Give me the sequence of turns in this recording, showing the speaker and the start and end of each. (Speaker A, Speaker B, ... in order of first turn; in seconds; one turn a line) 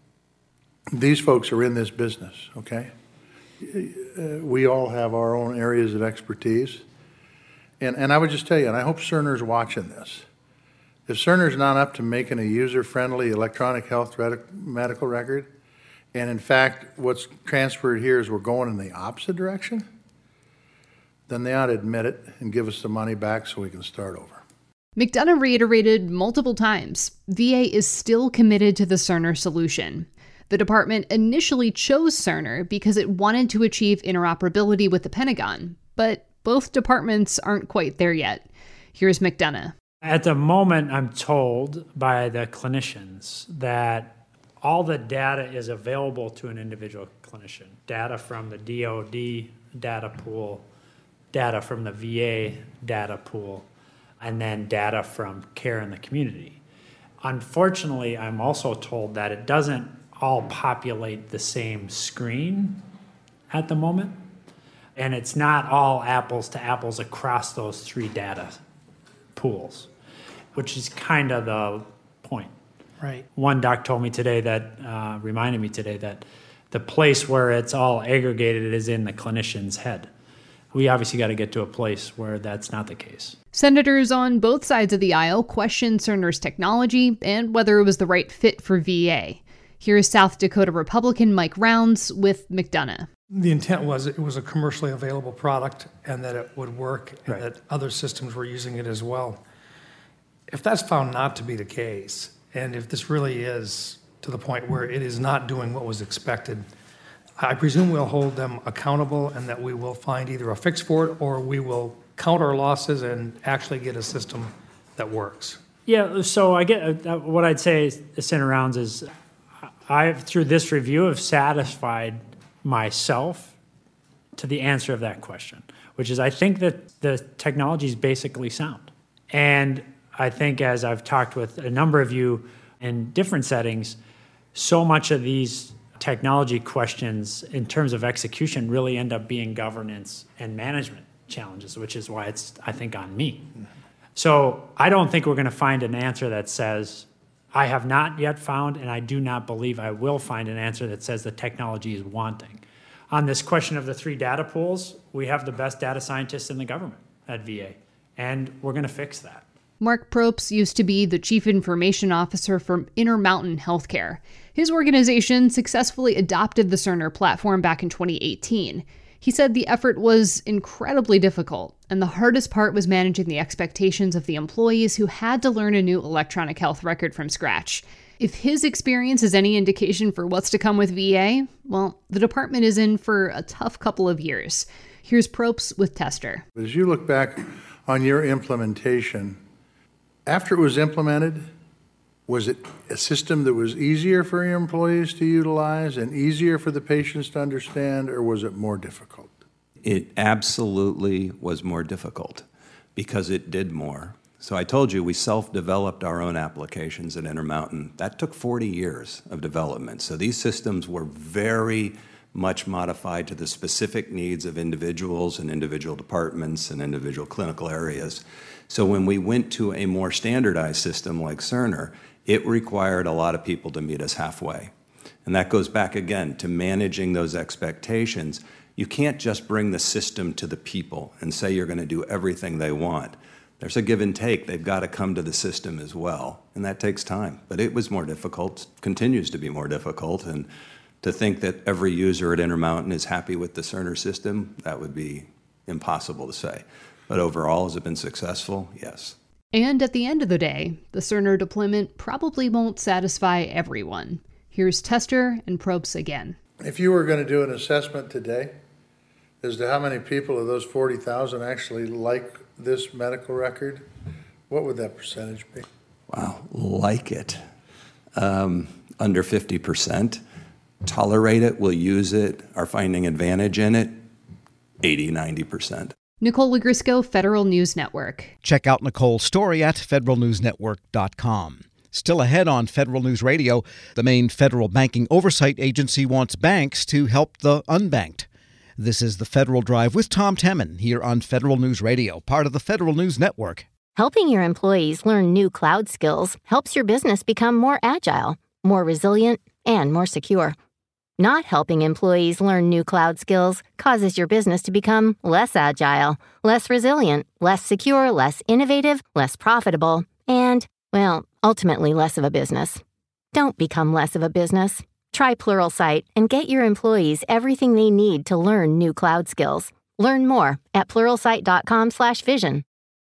Speaker A: 0.9-2.9
Speaker A: 3.6-6.8
Speaker A: 7.8-10.2
Speaker A: 11.1-15.5
Speaker A: 16.1-19.8
Speaker A: 21.3-24.4
Speaker B: 24.9-39.7
Speaker C: 40.0-50.6
Speaker C: 51.3-53.7
Speaker C: 54.2-56.6
Speaker C: 57.2-62.8
Speaker C: 63.5-64.1
Speaker C: 65.0-68.6
Speaker C: 69.3-69.9
Speaker C: 70.5-72.5
Speaker D: 73.0-73.2
Speaker C: 73.3-80.1
Speaker C: 80.7-83.3
Speaker B: 83.5-93.1
Speaker D: 93.3-99.4
Speaker D: 100.5-106.7
Speaker D: 107.4-115.6
Speaker C: 115.8-119.0
Speaker C: 119.9-123.5
Speaker C: 124.4-134.0
Speaker C: 134.5-143.5
Speaker C: 144.2-159.4
Speaker B: 159.8-186.4
Speaker A: 186.6-189.4
Speaker A: 190.3-191.4
Speaker A: 192.3-199.3
Speaker E: 199.8-202.4
Speaker E: 202.9-224.7
Speaker E: 225.2-240.5
Speaker E: 241.0-249.2
Speaker B: 249.5-256.4
Speaker A: 256.6-258.5
Speaker A: 259.4-263.8
Speaker A: 264.5-265.6
Speaker E: 266.1-267.4
Speaker E: 268.1-270.2
Speaker E: 270.8-274.0
Speaker E: 274.8-275.9
Speaker B: 276.2-278.3
Speaker F: 278.4-288.3
Speaker F: 288.8-293.7
Speaker G: 293.9-300.5
Speaker G: 301.2-312.8
Speaker G: 313.3-322.6